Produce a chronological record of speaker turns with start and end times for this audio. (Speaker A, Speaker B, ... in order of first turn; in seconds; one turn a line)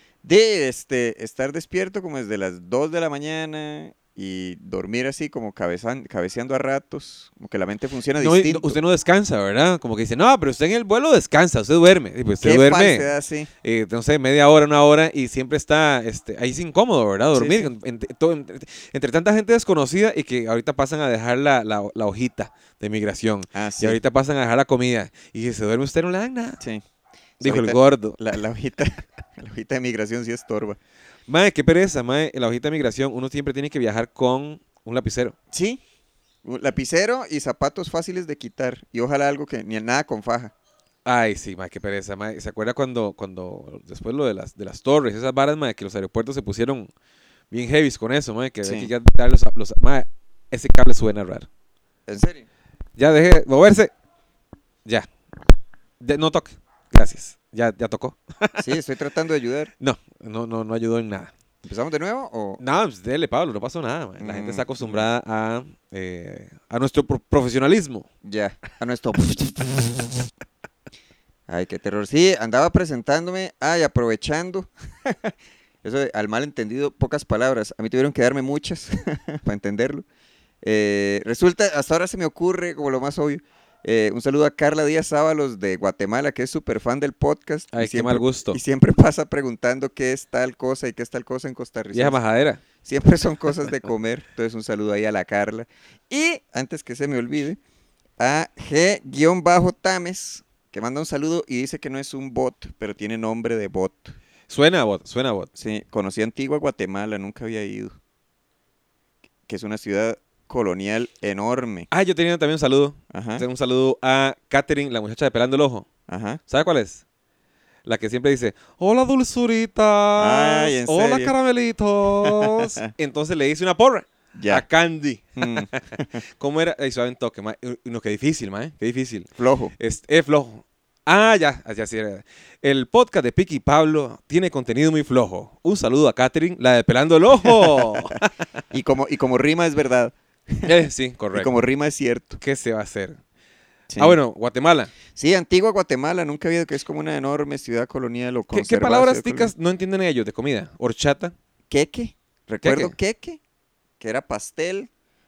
Speaker A: 0.2-8.8
Speaker B: 8.2-13.1
Speaker A: 12.4-13.5
Speaker B: 13.6-26.6
Speaker A: 17.3-17.7
Speaker A: 23.5-24.0
Speaker B: 27.4-28.2
Speaker A: 27.4-30.8
Speaker B: 31.3-35.3
Speaker A: 35.5-35.8
Speaker A: 36.4-40.5
Speaker B: 41.0-46.9
Speaker B: 47.5-51.5
Speaker A: 48.6-48.9
Speaker A: 52.1-52.5
Speaker B: 53.0-53.9
Speaker B: 56.0-58.7
Speaker A: 58.6-59.7
Speaker B: 59.8-61.3
Speaker A: 61.6-62.6
Speaker B: 62.6-68.1
Speaker A: 64.2-65.1
Speaker A: 68.2-70.0
Speaker A: 71.5-80.0
Speaker A: 80.6-92.2
Speaker B: 87.7-88.6
Speaker B: 91.9-92.6
Speaker A: 92.8-97.6
Speaker A: 98.2-104.2
Speaker B: 104.5-105.5
Speaker A: 105.5-108.0
Speaker A: 109.5-111.9
Speaker B: 111.9-115.9
Speaker A: 113.1-113.4
Speaker A: 116.1-116.4
Speaker B: 116.5-117.0
Speaker B: 117.8-138.3
Speaker A: 120.2-121.3
Speaker A: 122.2-122.9
Speaker A: 124.3-124.6
Speaker A: 125.4-126.2
Speaker A: 129.4-129.7
Speaker A: 137.4-137.9
Speaker A: 138.7-140.7
Speaker B: 140.6-141.5
Speaker A: 141.3-142.4
Speaker B: 142.4-143.2
Speaker A: 143.9-144.2
Speaker B: 144.0-144.9
Speaker A: 145.1-149.5
Speaker B: 148.5-151.3
Speaker A: 151.7-153.4
Speaker B: 152.6-152.9
Speaker A: 154.0-154.9